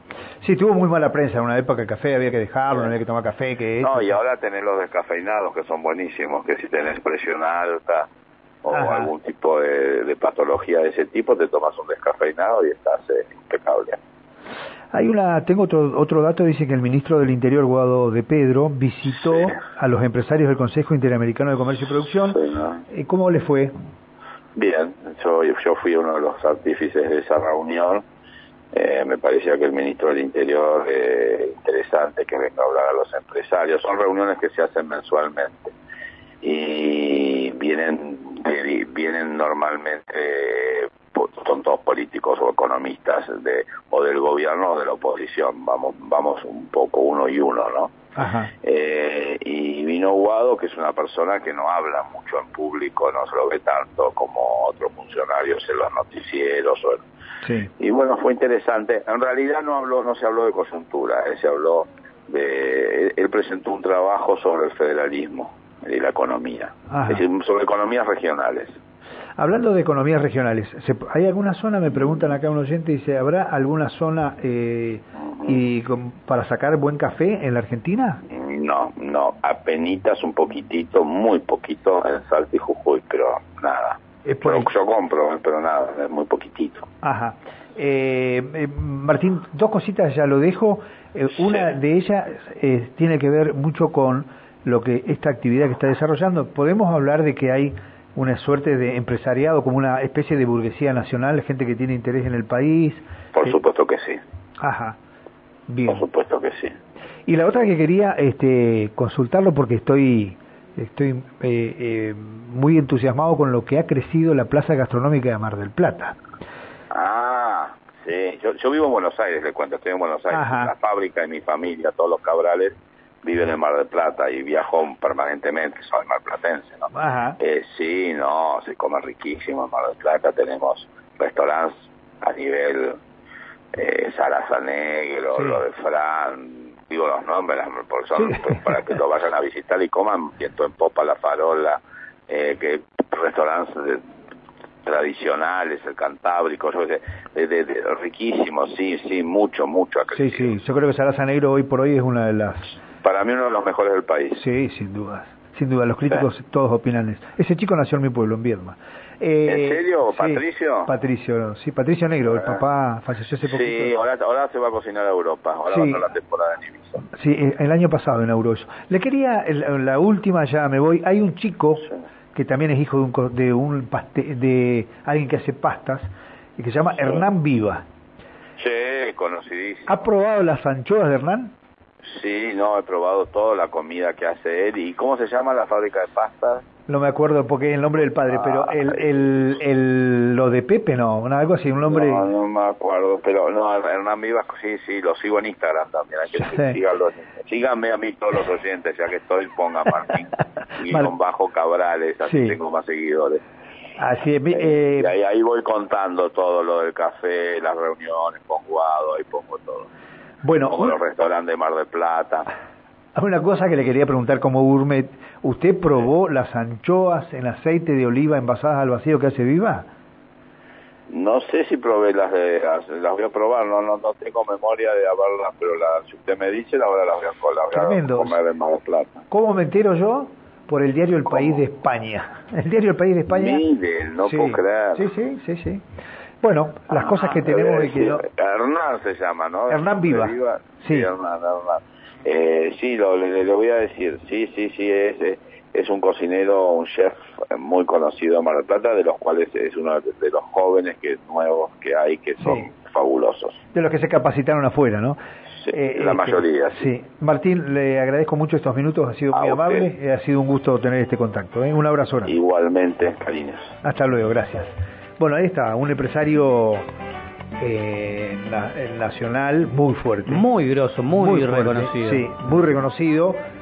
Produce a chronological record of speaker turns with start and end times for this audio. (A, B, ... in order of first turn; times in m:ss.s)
0:00.4-0:04.2 A
0:03.8-0:08.1 B
0:08.6-0:14.0 B
0:08.7-0:09.1 A
0:14.9-0:23.7 A
0:19.2-0:19.6 B
0:22.3-0:22.8 B
0:24.6-0:28.0 B
0:28.7-0:35.7 B
0:36.4-0:47.9 B
0:48.2-0:48.5 A
0:48.6-0:57.0 B
0:57.4-0:57.7 A
0:57.8-1:08.7 B
1:06.9-1:07.2 A
1:09.4-1:18.2 A
1:18.3-1:26.9 B
1:24.2-1:24.7 A
1:27.0-1:43.6 A
1:31.4-1:31.6 B
1:43.3-1:44.2 B
1:44.6-1:45.0 A
1:45.7-1:46.0 A
1:45.9-1:46.7 B
1:47.3-1:56.2 A
1:56.9-2:06.9 B
2:00.3-2:00.7 A
2:06.9-2:07.4 A
2:07.4-2:13.0 B
2:13.7-2:24.0 B
2:15.3-2:15.6 A
2:18.2-2:18.7 A
2:24.8-2:30.6 B
2:30.1-2:32.8 A
2:33.0-2:34.4 B
2:34.4-2:43.9 A
2:39.5-2:40.9 B
2:43.4-2:47.0 B
2:45.7-2:46.0 A
2:47.0-2:57.8 A
2:58.6-3:00.0 B
2:59.9-3:01.5 A
3:02.0-3:06.6 B
3:06.9-3:12.3 A
3:08.2-3:09.0 B
3:11.9-3:23.4 B
3:16.4-3:16.8 A
3:22.2-3:22.6 A
3:24.0-3:25.1 A
3:24.5-3:29.9 B
3:30.4-3:31.0 A
3:30.6-3:32.5 B
3:33.1-3:39.9 A
3:41.1-3:49.2 B
3:47.7-3:48.4 A
3:49.3-3:53.6 A
3:51.2-3:51.6 B
3:53.3-3:55.1 B
3:54.2-3:55.8 A
3:56.4-3:58.2 A
3:56.9-4:13.6 B
3:59.7-4:01.1 A
4:12.4-4:12.7 A
4:13.7-4:22.4 A
4:15.6-4:16.9 B
4:19.3-4:19.9 B
4:22.2-4:23.7 B
4:23.8-4:26.8 A
4:27.6-4:30.5 A
4:30.3-4:32.3 C
4:31.2-4:33.4 A